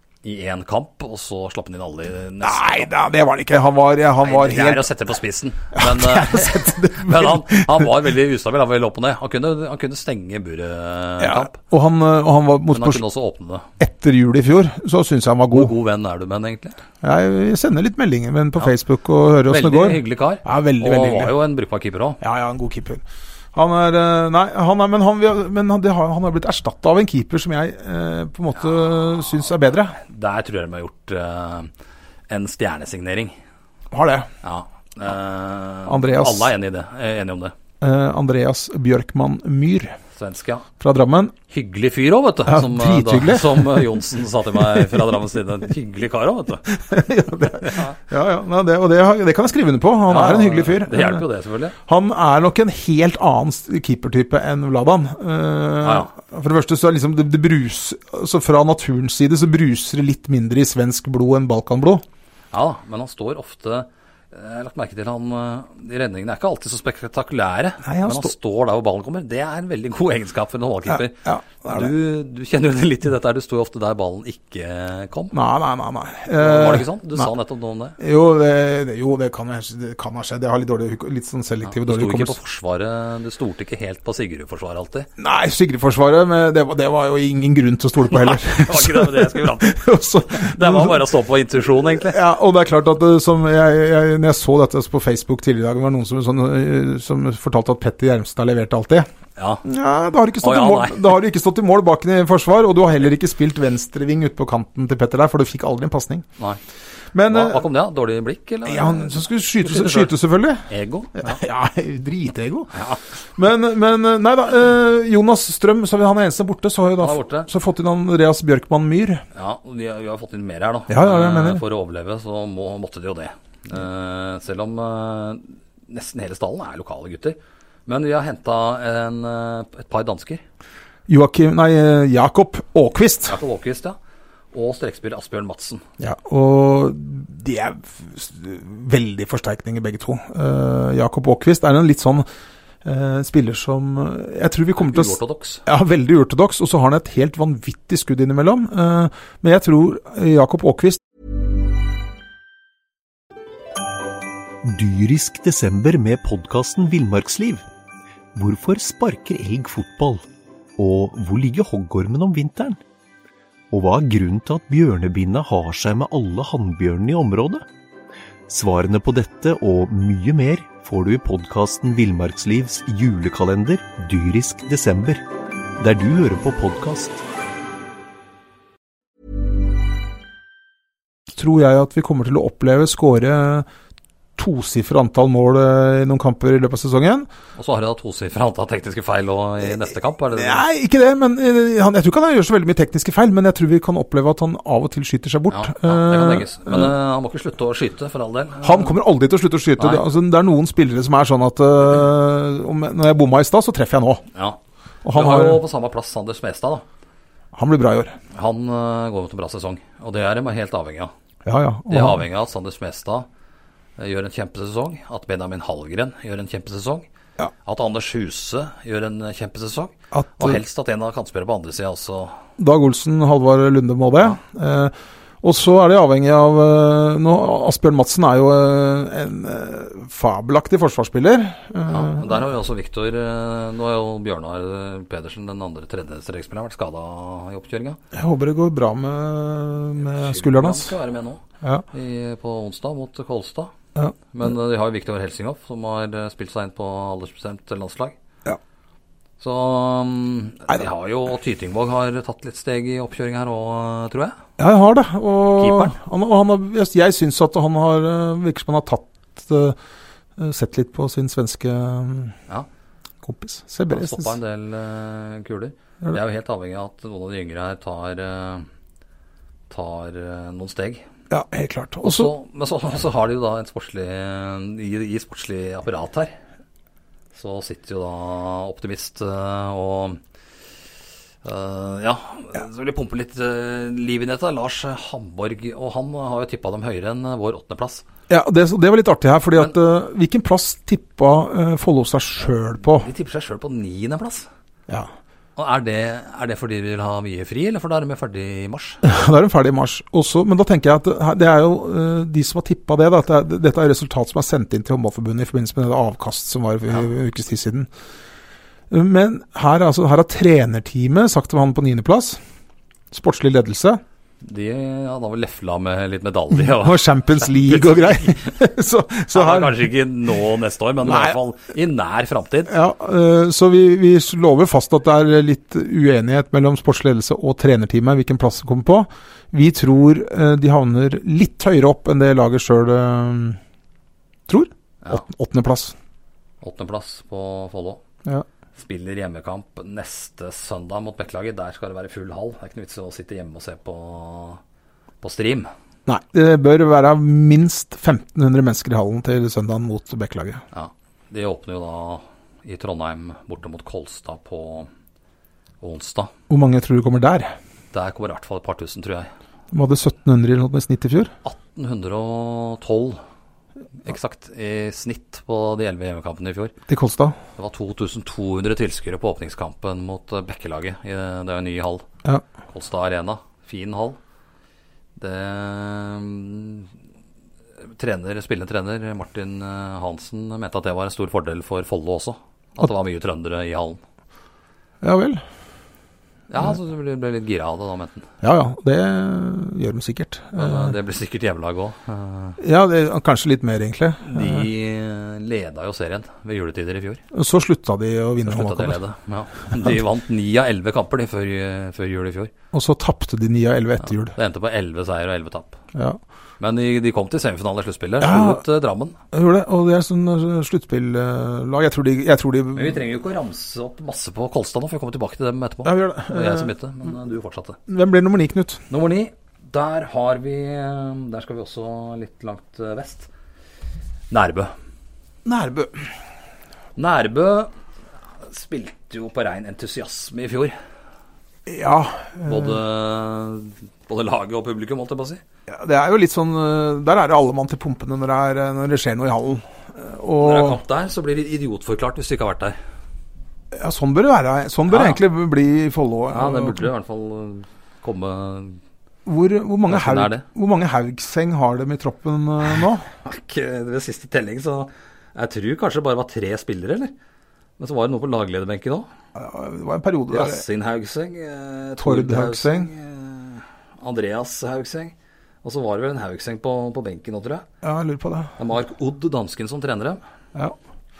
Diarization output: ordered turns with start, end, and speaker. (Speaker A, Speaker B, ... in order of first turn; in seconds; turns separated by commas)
Speaker A: 0.2-2.9, Speaker B: 2.4-4.9, Speaker A: 4.2-11.6, Speaker B: 5.7-7.9, Speaker B: 11.2-13.0, Speaker A: 12.7-13.7, Speaker B: 13.8-15.7, Speaker A: 15.5-16.8, Speaker B: 17.0-21.3, Speaker A: 19.5-22.2, Speaker B: 22.2-30.0, Speaker A: 28.6-31.7, Speaker A: 32.3-33.3, Speaker B: 33.9-34.3, Speaker A: 34.4-37.5, Speaker B: 35.9-36.5, Speaker B: 37.8-40.0, Speaker A: 40.1-40.7, Speaker B: 40.8-41.3, Speaker A: 41.5-46.7, Speaker B: 42.5-43.9, Speaker B: 44.7-45.0, Speaker B: 46.7-51.2, Speaker A: 47.6-48.0, Speaker A: 50.1-51.8, Speaker B: 51.8-62.0, Speaker A: 55.8-56.1, Speaker A: 62.5-75.3, Speaker B: 67.8-68.3, Speaker B: 70.9-71.9, Speaker B: 75.3-77.3, Speaker A: 76.4-78.0, Speaker B: 78.0-82.3, Speaker A: 81.6-85.1, Speaker B: 85.2-91.0, Speaker A: 88.1-92.2, Speaker B: 91.8-99.1, Speaker A: 99.4-99.6, Speaker B: 99.6-106.2, Speaker A: 100.4-101.1, Speaker B: 107.1-107.7, Speaker A: 107.3-110.2, Speaker B: 108.7-112.8, Speaker A: 110.7-111.4, Speaker A: 112.7-113.0, Speaker B: 113.3-119.2, Speaker A: 117.0-117.5, Speaker A: 119.3-130.4, Speaker B: 120.9-121.6, Speaker B: 131.1-133.4, Speaker A: 133.3-134.0, Speaker A: 134.5-135.8, Speaker B: 136.0-142.2, Speaker B: 142.8-151.0, Speaker A: 144.8-145.6, Speaker C: 154.6-157.6, Speaker C: 158.3-160.2, Speaker C: 160.8-162.8, Speaker C: 163.7-167.6, Speaker C: 168.5-175.2, Speaker C: 175.8-177.2, Speaker B: 181.3-183.7, Speaker B: 184.4-187.3, Speaker A: 187.6-190.6, Speaker B: 190.3-196.9, Speaker A: 195.5-198.9, Speaker B: 198.6-204.2, Speaker A: 199.8-200.0, Speaker A: 204.3-204.6, Speaker B: 205.0-205.6, Speaker A: 205.1-206.8, Speaker B: 207.5-208.2, Speaker A: 208.3-211.1, Speaker B: 211.4-212.2, Speaker A: 211.9-213.3, Speaker A: 214.0-217.1, Speaker A: 217.6-222.4, Speaker B: 220.1-220.6, Speaker B: 222.6-232.5, Speaker A: 231.9-238.0, Speaker B: 238.1-240.9, Speaker A: 240.0-243.7, Speaker A: 244.3-248.1, Speaker A: 249.4-254.4, Speaker B: 254.6-259.8, Speaker A: 255.6-255.9, Speaker B: 260.4-262.4, Speaker B: 263.2-264.4, Speaker A: 263.9-268.7, Speaker A: 269.7-271.0, Speaker B: 271.3-272.3, Speaker A: 272.0-276.3, Speaker A: 277.3-280.2, Speaker A: 281.4-288.0, Speaker B: 288.3-293.1, Speaker A: 292.9-294.5, Speaker A: 295.6-299.0, Speaker B: 299.0-307.9, Speaker B: 308.9-312.4, Speaker B: 313.1-314.0, Speaker A: 314.4-318.5, Speaker B: 316.5-319.9, Speaker A: 319.3-322.7, Speaker B: 321.0-321.4, Speaker B: 322.7-333.6, Speaker B: 334.5-335.9, Speaker A: 336.6-338.0, Speaker A: 338.7-344.6, Speaker A: 345.2-345.7, Speaker B: 346.1-350.6, Speaker A: 350.7-354.9, Speaker A: 355.8-356.3, Speaker B: 356.5-357.5, Speaker A: 357.9-359.3, Speaker B: 359.7-361.3, Speaker A: 361.4-363.2, Speaker A: 364.0-366.7, Speaker B: 366.9-367.4, Speaker A: 367.6-372.0, Speaker A: 372.7-374.2, Speaker A: 375.2-376.9, Speaker A: 377.8-384.0, Speaker B: 385.0-385.4, Speaker A: 386.5-388.3, Speaker B: 388.4-390.9, Speaker A: 390.5-392.6, Speaker B: 392.6-394.7, Speaker A: 394.2-397.2, Speaker B: 397.3-399.0, Speaker A: 398.4-402.5, Speaker B: 402.7-404.3, Speaker A: 404.1-405.8, Speaker B: 405.9-406.2, Speaker A: 406.6-409.2, Speaker B: 408.2-408.6, Speaker B: 409.3-413.0, Speaker A: 412.7-417.8, Speaker B: 415.8-416.7, Speaker B: 417.9-418.8, Speaker A: 418.9-423.3, Speaker A: 424.3-424.7, Speaker B: 425.4-426.1, Speaker A: 426.9-427.7, Speaker A: 428.4-430.7, Speaker B: 431.6-432.8, Speaker A: 432.4-435.4, Speaker B: 435.7-440.8, Speaker A: 440.4-442.8, Speaker B: 443.7-446.9, Speaker A: 444.9-445.2, Speaker A: 446.3-448.8, Speaker B: 449.2-453.0, Speaker A: 449.9-450.4, Speaker A: 453.2-457.1, Speaker A: 457.8-459.1, Speaker B: 459.3-460.6, Speaker A: 460.3-467.6, Speaker B: 462.0-462.9, Speaker B: 467.8-468.5, Speaker A: 468.6-470.2